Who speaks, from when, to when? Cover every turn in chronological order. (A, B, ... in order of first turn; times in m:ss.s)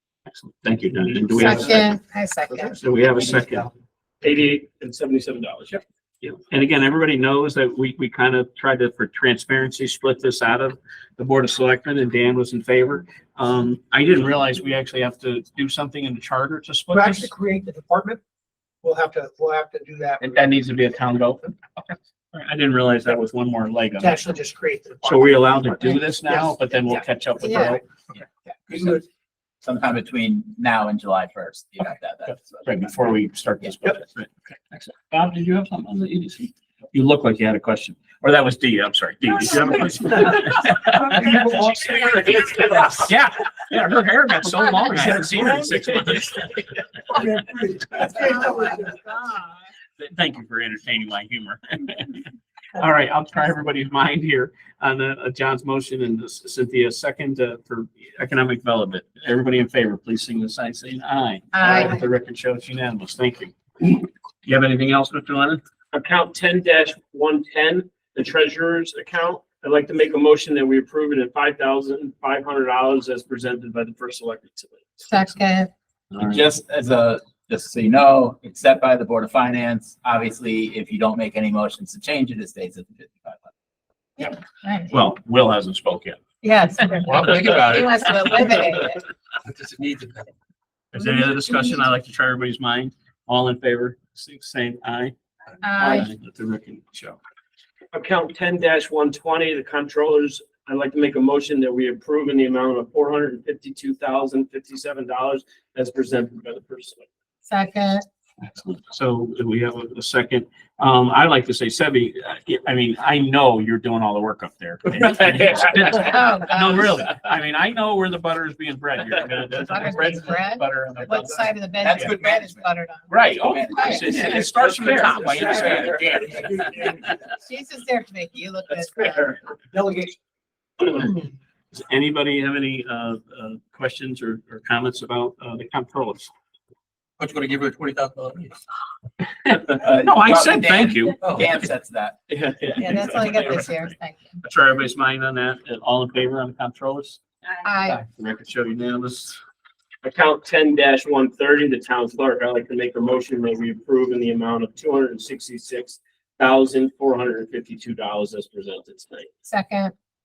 0:00.4-0:01.9 A
0:01.4-0:02.8 B
0:02.8-0:03.7 A
0:03.0-0:03.6 C
0:04.2-0:06.3 D
0:06.5-0:17.3 A
0:16.9-0:18.2 C
0:18.8-0:20.6 C
0:20.2-0:21.5 A
0:22.3-0:24.2 A
0:24.0-0:26.6 C
0:25.0-0:27.8 A
0:27.4-0:27.8 B
0:28.1-0:29.0 E
0:29.6-0:32.9 E
0:32.3-0:46.8 A
0:40.9-0:42.4 C
0:45.0-0:45.6 C
0:47.1-0:49.0 C
0:50.0-1:05.6 A
1:01.5-1:02.0 B
1:05.9-1:15.3 D
1:15.0-1:15.7 B
1:16.1-1:16.4 A
1:16.2-1:23.5 E
1:24.2-1:24.9 B
1:24.9-1:26.2 A
1:26.4-1:29.0 B
1:26.9-1:28.8 F
1:29.4-1:30.3 F
1:30.9-1:35.1 A
1:35.6-1:36.1 B
1:35.8-1:37.2 A
1:37.9-1:47.1 D
1:47.5-1:48.1 B
1:48.4-2:02.1 A
1:55.9-1:57.0 B
1:59.6-2:03.2 B
2:01.8-2:05.8 E
2:03.1-2:06.9 A
2:03.7-2:04.1 B
2:04.0-2:04.4 D
2:04.0-2:06.2 F
2:05.2-2:06.0 D
2:06.1-2:07.0 C
2:07.3-2:09.2 B
2:09.7-2:10.2 C
2:11.7-2:16.3 A
2:17.2-2:18.6 F
2:19.4-2:21.2 A
2:19.8-2:22.2 E
2:21.2-2:21.5 F
2:22.3-2:27.2 A
2:22.8-2:24.4 B
2:27.6-2:28.0 B
2:28.0-2:29.4 A
2:30.0-2:39.3 D
2:39.4-2:39.9 B